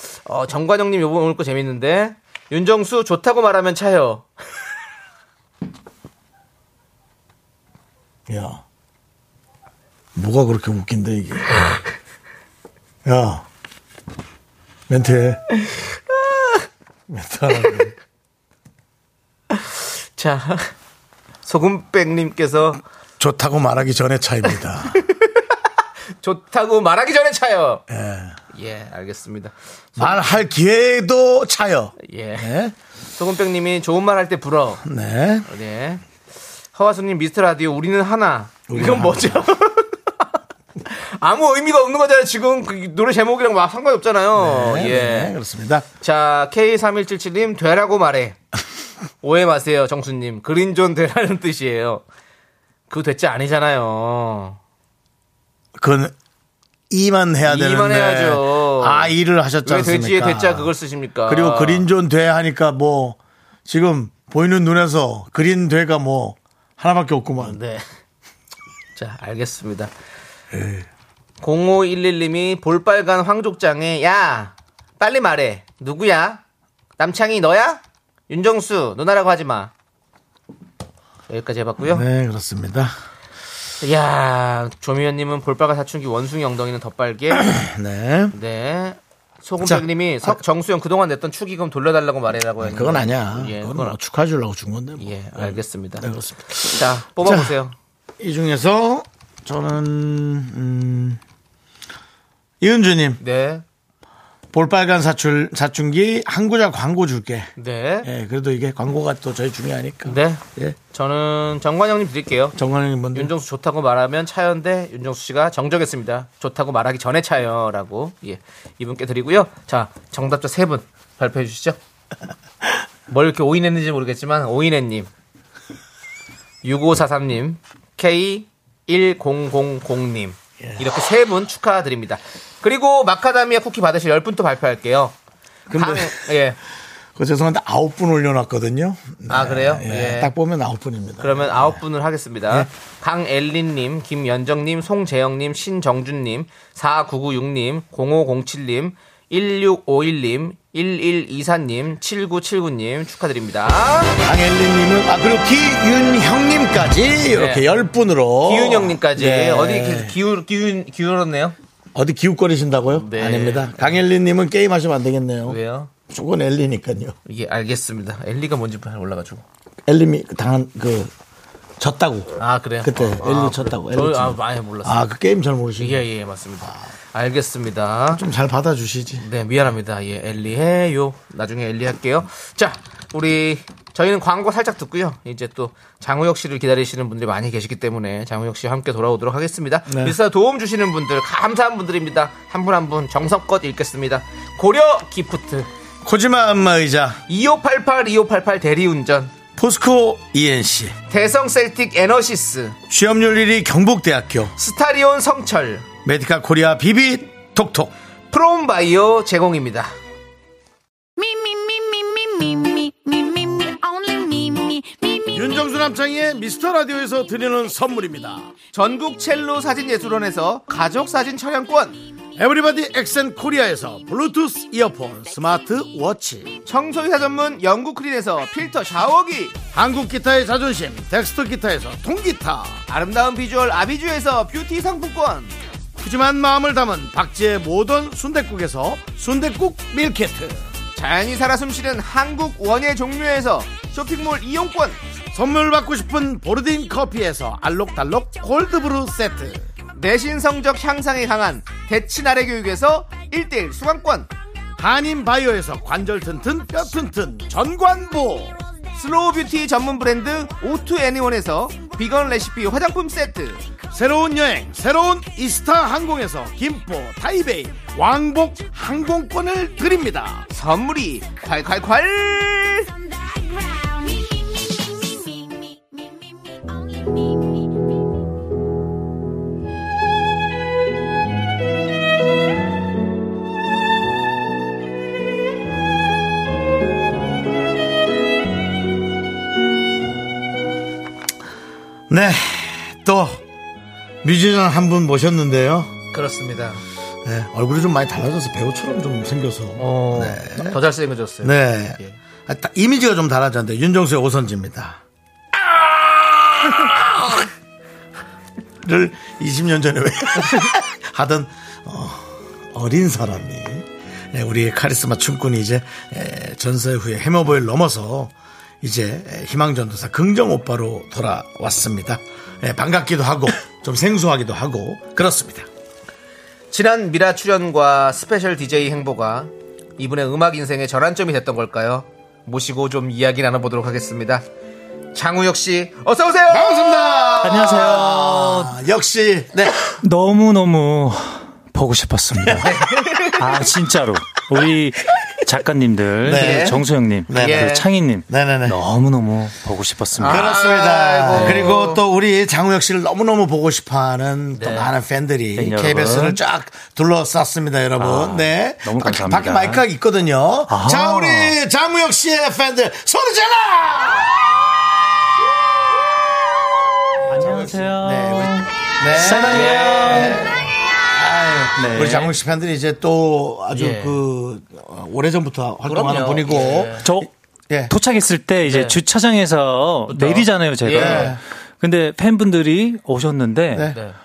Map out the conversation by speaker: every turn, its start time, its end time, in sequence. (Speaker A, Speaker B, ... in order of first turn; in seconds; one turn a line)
Speaker A: 0.2-4.3
Speaker B: 8.3-8.6
Speaker B: 10.1-11.8
Speaker B: 13.0-13.4
Speaker B: 14.9-15.4
Speaker B: 17.1-17.9
Speaker A: 19.5-20.7
Speaker A: 21.4-22.8
Speaker B: 23.2-25.0
Speaker A: 24.9-25.5
Speaker A: 26.2-27.8
Speaker B: 27.9-28.3
Speaker A: 28.5-30.3
Speaker B: 30.0-32.7
Speaker A: 32.0-32.5
Speaker A: 33.2-34.8
Speaker B: 34.8-35.5
Speaker A: 35.5-36.0
Speaker A: 36.7-40.2
Speaker B: 38.7-39.5
Speaker A: 40.8-45.3
Speaker B: 44.3-45.9
Speaker A: 46.0-48.4
Speaker A: 49.2-52.0
Speaker A: 52.9-54.6
Speaker B: 55.8-56.1
Speaker B: 56.9-60.7
Speaker A: 57.4-61.9
Speaker B: 61.3-67.6
Speaker A: 67.4-67.8
Speaker A: 69.0-69.9
Speaker B: 70.5-70.9
Speaker A: 71.4-76.4
Speaker A: 77.0-79.7
Speaker A: 81.3-82.0
Speaker B: 81.8-82.9
Speaker A: 83.8-87.5
Speaker B: 87.3-88.3
Speaker A: 88.3-94.0
Speaker B: 89.6-90.4
Speaker B: 92.6-97.5
Speaker A: 95.0-97.7
Speaker B: 98.2-101.2
Speaker B: 102.6-103.2
Speaker A: 103.2-103.6
Speaker B: 104.5-107.5
Speaker A: 107.6-108.1
Speaker B: 108.0-110.8
Speaker A: 110.0-110.4
Speaker A: 110.9-112.5
Speaker B: 112.5-113.3
Speaker A: 113.1-121.8
Speaker A: 123.1-125.1
Speaker A: 126.6-135.1
Speaker B: 130.6-130.8
Speaker B: 135.7-136.2
Speaker A: 135.7-136.6
Speaker B: 137.2-141.8
Speaker A: 139.3-140.3
Speaker A: 141.2-154.2
Speaker B: 154.2-160.1
Speaker A: 157.3-157.8
Speaker A: 158.4-161.5
Speaker B: 161.9-167.2
Speaker A: 162.9-164.0
Speaker A: 165.4-165.9
Speaker A: 167.2-169.4
Speaker B: 169.8-171.1
Speaker B: 171.8-176.0
Speaker A: 172.4-175.1
Speaker A: 175.8-178.2
Speaker B: 178.1-179.2
Speaker A: 179.2-195.7
Speaker B: 189.9-190.2
Speaker B: 196.0-197.2
Speaker A: 197.3-199.3
Speaker B: 199.6-200.9
Speaker A: 201.1-202.8
Speaker B: 202.9-204.5
Speaker A: 204.6-205.8
Speaker B: 206.0-207.9
Speaker A: 208.3-209.9
Speaker C: 211.2-215.6
Speaker B: 215.3-218.5
Speaker A: 218.7-222.0
Speaker B: 222.3-226.5
Speaker A: 226.7-229.6
Speaker B: 229.7-232.8
Speaker A: 232.9-235.5
Speaker B: 236.0-240.6
Speaker A: 240.9-245.0
Speaker B: 245.3-249.7
Speaker A: 249.9-254.3
Speaker B: 254.8-258.6
Speaker A: 258.9-263.6
Speaker B: 263.9-270.4
Speaker A: 270.5-272.9
Speaker C: 273.6-274.2
Speaker C: 275.4-275.6
Speaker B: 292.1-293.4
Speaker B: 294.2-295.9
Speaker A: 296.1-296.8
Speaker B: 297.2-300.8
Speaker A: 299.8-302.2
Speaker B: 301.4-305.0
Speaker B: 305.5-307.5
Speaker B: 308.8-325.7
Speaker A: 326.7-334.4
Speaker A: 335.1-338.4
Speaker B: 336.5-339.8
Speaker D: 337.4-338.7
Speaker D: 340.0-342.7
Speaker B: 342.4-342.8
Speaker A: 342.6-343.5
Speaker D: 343.4-350.5
Speaker B: 346.2-348.8
Speaker A: 346.3-347.9
Speaker A: 350.2-352.0
Speaker B: 350.2-364.4
Speaker D: 351.3-351.6
Speaker A: 354.5-354.9
Speaker D: 355.6-356.4
Speaker D: 358.0-359.8
Speaker D: 360.7-361.6
Speaker D: 367.3-370.4
Speaker B: 367.3-377.9
Speaker A: 369.4-370.4
Speaker D: 371.8-372.3
Speaker A: 373.7-374.2
Speaker A: 375.8-377.1
Speaker D: 377.0-377.3
Speaker D: 377.9-383.9
Speaker A: 378.6-379.0
Speaker A: 380.1-381.4
Speaker B: 380.9-381.4